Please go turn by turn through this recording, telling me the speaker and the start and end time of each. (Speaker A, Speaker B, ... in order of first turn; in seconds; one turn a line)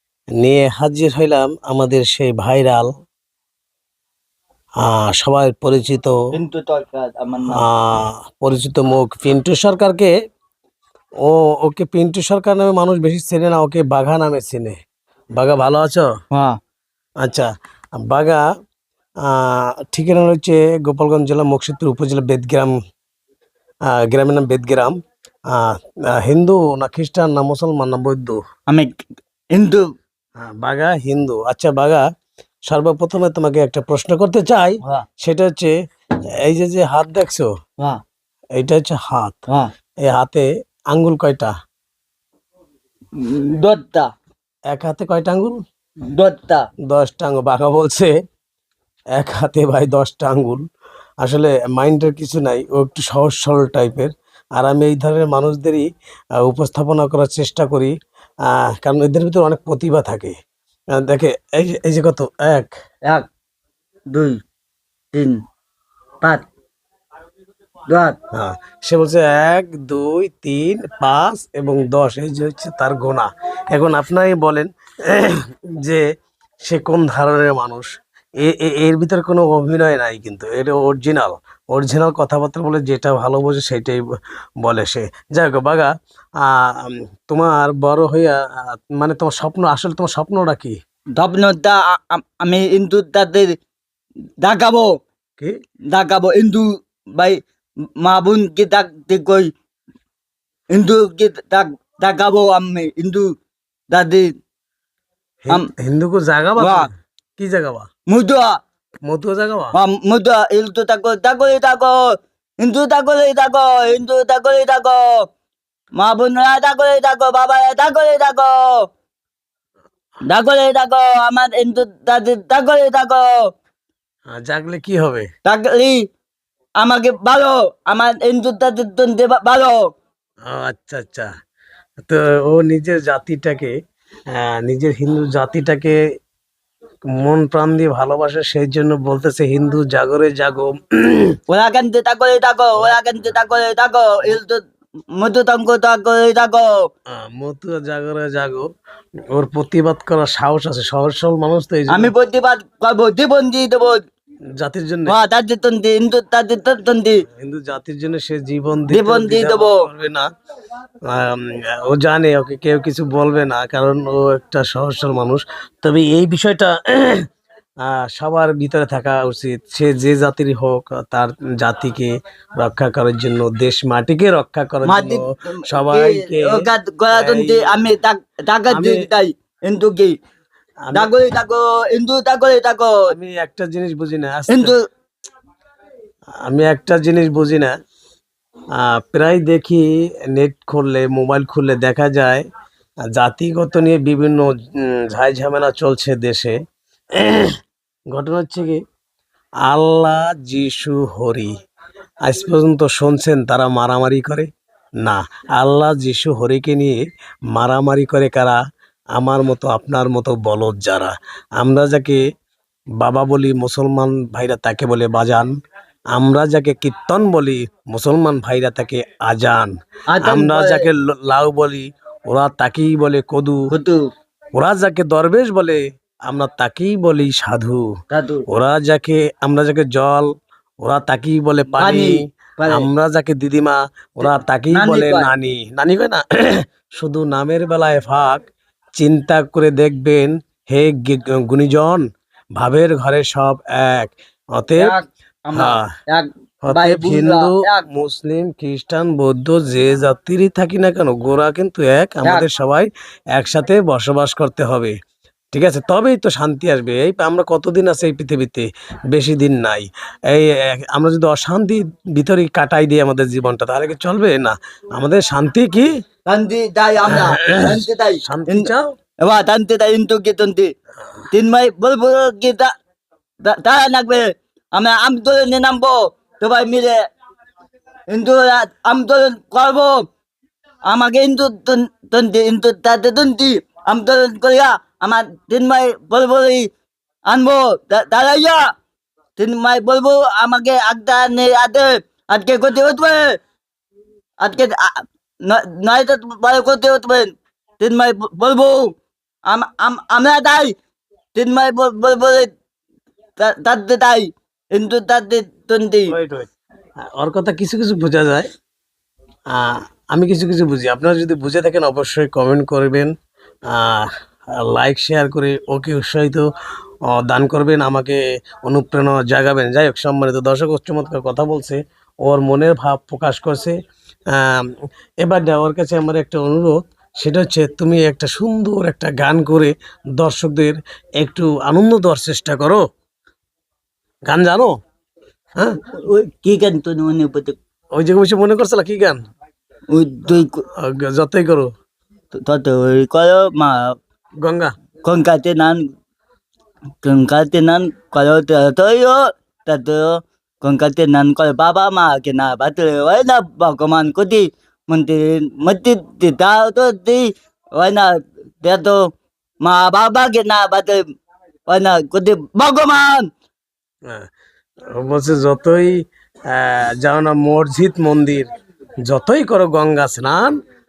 Speaker A: 0.4-2.9
Speaker A: 4.8-6.2
Speaker B: 6.3-7.7
Speaker A: 7.5-10.1
Speaker A: 11.2-14.8
Speaker A: 15.4-16.1
Speaker B: 16.3-16.6
Speaker A: 17.2-17.5
Speaker A: 18.0-18.4
Speaker A: 19.2-22.8
Speaker A: 23.9-25.0
Speaker A: 25.5-28.4
Speaker B: 28.7-28.9
Speaker B: 29.5-29.8
Speaker A: 30.4-32.0
Speaker A: 32.7-35.8
Speaker A: 36.5-37.5
Speaker A: 38.6-39.4
Speaker A: 40.0-41.5
Speaker B: 43.2-44.1
Speaker A: 44.7-45.6
Speaker B: 46.1-46.7
Speaker A: 46.9-48.1
Speaker A: 49.2-50.6
Speaker A: 51.2-55.9
Speaker A: 56.4-58.0
Speaker A: 58.5-60.4
Speaker A: 61.0-62.7
Speaker B: 64.1-64.4
Speaker B: 65.1-65.4
Speaker B: 67.9-68.2
Speaker A: 68.3-76.0
Speaker A: 76.7-77.9
Speaker A: 78.4-84.0
Speaker A: 84.6-85.9
Speaker A: 86.4-88.4
Speaker A: 89.0-90.8
Speaker B: 91.2-93.6
Speaker B: 94.4-95.0
Speaker B: 95.9-97.4
Speaker B: 98.0-99.5
Speaker B: 100.7-103.3
Speaker B: 103.9-104.3
Speaker A: 105.4-107.9
Speaker B: 106.6-106.9
Speaker B: 108.1-108.6
Speaker A: 109.1-109.8
Speaker B: 109.8-112.0
Speaker B: 112.6-115.2
Speaker B: 116.0-118.9
Speaker B: 120.3-123.5
Speaker A: 124.3-125.3
Speaker B: 125.5-126.0
Speaker B: 126.8-129.8
Speaker A: 130.5-131.3
Speaker A: 132.0-133.7
Speaker A: 134.3-136.0
Speaker A: 137.2-141.3
Speaker B: 141.5-144.6
Speaker A: 142.8-143.3
Speaker B: 145.2-146.7
Speaker A: 147.1-148.7
Speaker A: 149.3-152.1
Speaker B: 151.9-154.0
Speaker A: 154.6-155.2
Speaker B: 155.1-157.2
Speaker A: 157.3-160.3
Speaker B: 158.9-159.8
Speaker A: 161.1-167.2
Speaker A: 167.8-176.6
Speaker B: 174.8-180.2
Speaker A: 177.1-177.9
Speaker A: 178.7-179.1
Speaker A: 180.8-181.1
Speaker B: 180.9-182.9
Speaker A: 183.1-184.7
Speaker B: 184.5-184.8
Speaker A: 186.4-187.7
Speaker A: 188.8-192.5
Speaker A: 193.1-196.6
Speaker A: 197.2-197.6
Speaker A: 198.1-198.8
Speaker A: 199.7-201.5
Speaker A: 202.3-204.5
Speaker A: 205.0-207.0
Speaker A: 207.5-208.6
Speaker A: 209.2-212.2
Speaker A: 213.0-215.6
Speaker A: 216.2-223.7
Speaker B: 220.1-220.8
Speaker B: 223.7-224.0
Speaker A: 224.6-227.8
Speaker B: 228.1-228.4
Speaker A: 228.5-230.3
Speaker A: 230.8-238.4
Speaker B: 231.7-232.9
Speaker B: 234.2-235.3
Speaker A: 239.0-242.0
Speaker A: 242.6-244.9
Speaker B: 244.8-247.9
Speaker A: 245.5-245.9
Speaker A: 246.6-254.9
Speaker A: 255.5-265.9
Speaker B: 266.3-268.7
Speaker A: 267.1-268.9
Speaker B: 269.2-270.7
Speaker B: 271.3-272.7
Speaker B: 273.4-276.9
Speaker B: 278.1-280.0
Speaker B: 280.9-286.7
Speaker B: 287.3-288.6
Speaker B: 289.4-293.4
Speaker B: 294.4-298.9
Speaker B: 299.5-300.7
Speaker B: 301.4-302.5
Speaker B: 303.4-306.1
Speaker A: 306.1-306.5
Speaker A: 307.0-308.5
Speaker A: 309.5-313.1
Speaker A: 313.7-316.5
Speaker A: 317.1-323.8
Speaker A: 324.3-324.7
Speaker A: 325.2-332.8
Speaker A: 334.3-334.8
Speaker B: 335.9-337.6
Speaker A: 338.0-339.2
Speaker B: 339.9-340.6
Speaker A: 340.8-341.7
Speaker B: 342.3-343.9
Speaker A: 344.4-344.7
Speaker B: 345.0-345.8
Speaker B: 347.0-359.0
Speaker B: 359.6-361.0
Speaker B: 361.7-363.3
Speaker A: 364.9-366.0
Speaker A: 366.5-368.5
Speaker A: 369.1-370.6